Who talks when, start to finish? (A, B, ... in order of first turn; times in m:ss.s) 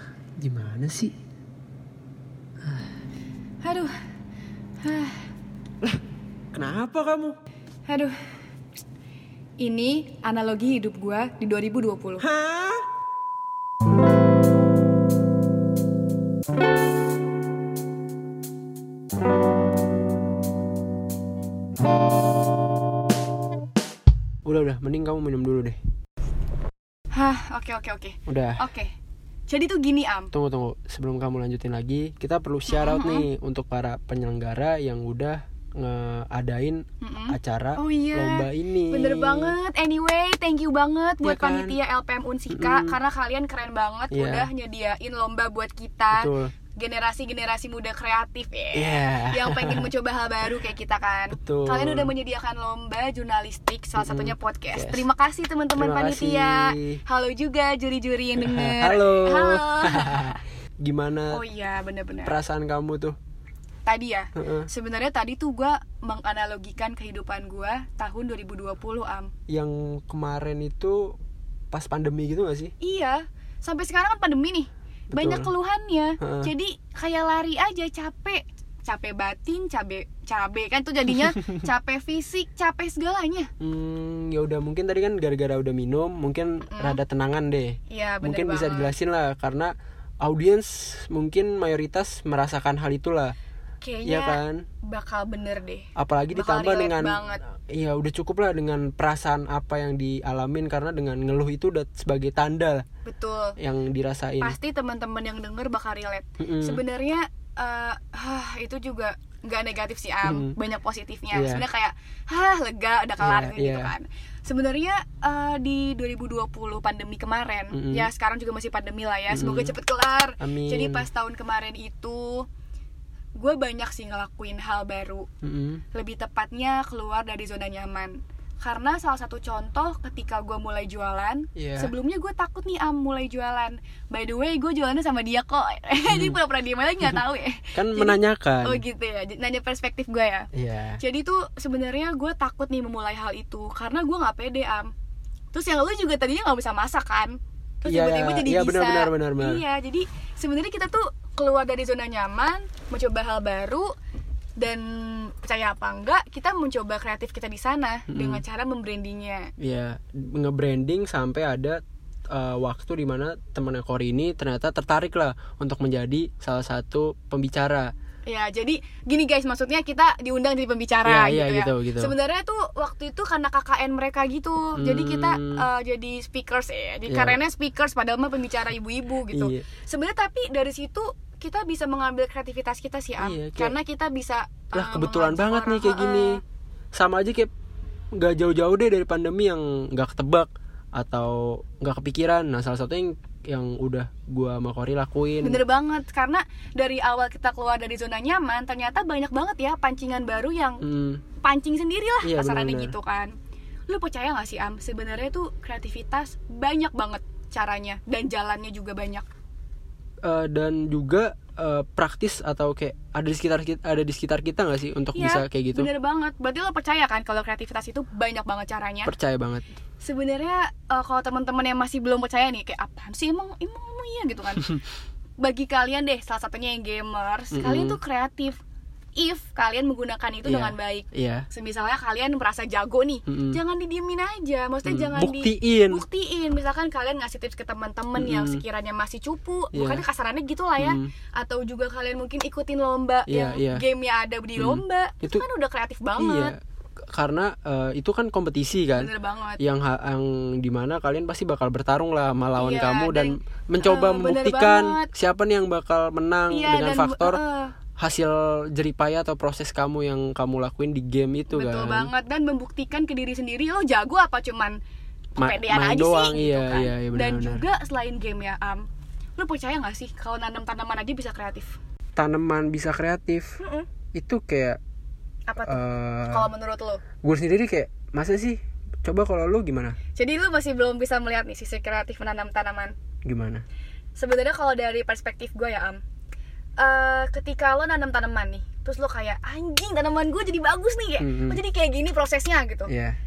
0:00.4-0:01.1 A
0:02.6-0:02.9 A
0:03.6-0:03.9 B
0:04.8-0:05.3 B
0:06.5-0:07.4 A
0:07.9-0:08.1 B
0:09.6-0:12.2 B
0:12.2-0:12.8 A
0:24.4-0:25.8 A
0:27.1-0:28.9 B
0:28.3-0:28.6 A
0:29.5-0:30.3 B
0:30.3-0:39.5 A
0:32.7-0:33.3 B
0:37.0-1:00.4 B
0:41.2-0:41.8 A
0:42.5-0:43.0 A
0:44.1-0:44.5 A
0:46.1-0:46.5 A
0:48.7-0:49.9 A
0:51.4-0:52.1 A
0:54.0-0:55.0 A
0:55.8-0:57.0 A
0:58.4-1:01.4 A
1:01.3-1:02.4 B
1:02.2-1:03.2 A
1:03.8-1:09.3 B
1:04.4-1:04.7 A
1:09.5-1:11.2 A
1:11.7-1:12.7 A
1:12.8-1:23.5 B
1:15.1-1:15.5 A
1:16.2-1:16.5 A
1:23.6-1:33.3 A
1:26.6-1:27.0 B
1:27.9-1:28.9 B
1:33.8-1:37.4 B
1:34.0-1:34.6 A
1:36.0-1:42.8 A
1:43.0-1:43.6 B
1:43.6-1:44.6 A
1:44.4-2:02.4 B
1:46.4-1:46.8 A
1:50.2-1:50.6 A
1:51.3-1:51.6 A
1:53.2-1:53.9 A
1:57.7-1:58.1 A
1:59.3-1:59.7 A
2:00.4-2:01.0 A
2:03.4-2:05.3 B
2:05.4-2:05.8 A
2:05.9-2:20.5 B
2:11.6-2:11.9 A
2:16.0-2:16.4 A
2:17.7-2:18.8 A
2:20.5-2:21.0 A
2:21.0-2:24.9 B
2:25.5-2:33.9 B
2:27.9-2:29.6 A
2:34.6-2:39.5 B
2:38.1-2:38.4 A
2:39.6-2:41.8 A
2:42.3-2:47.9 A
2:48.2-3:06.4 B
2:51.0-2:52.1 A
2:54.8-2:55.6 A
2:57.1-2:57.4 A
2:59.3-2:59.6 A
3:03.2-3:03.8 A
3:04.7-3:06.4 A
3:06.9-3:07.5 A
3:08.2-3:15.6 A
3:15.4-3:20.8 B
3:20.8-3:21.2 A
3:21.4-3:23.3 B
3:22.2-3:23.0 A
3:23.9-3:29.2 B
3:30.2-3:35.9 A
3:35.1-3:39.1 B
3:39.0-3:39.6 A
3:40.0-3:44.8 B
3:45.4-3:48.6 B
3:47.5-3:48.0 A
3:49.2-4:06.5 B
3:50.4-3:51.5 A
3:53.3-3:53.6 A
3:54.8-3:56.0 A
3:58.2-3:58.6 A
3:59.7-4:00.0 A
4:00.8-4:01.1 A
4:03.3-4:03.8 A
4:04.6-4:05.4 A
4:06.2-4:06.6 A
4:07.1-4:17.4 A
4:09.0-4:09.6 B
4:12.6-4:15.1 B
4:16.5-4:17.7 B
4:18.0-4:22.1 A
4:21.5-4:24.8 B
4:25.4-4:28.8 B
4:25.4-4:27.6 A
4:29.4-4:31.8 B
4:32.2-4:33.6 A
4:33.6-4:33.9 B
4:34.1-4:34.8 A
4:35.5-4:37.0 B
4:35.6-4:36.5 A
4:37.2-4:40.0 A
4:40.2-4:42.9 B
4:43.2-4:43.6 A
4:44.2-4:46.0 B
4:46.8-4:52.9 B
4:51.2-4:51.6 A
4:52.9-4:53.2 A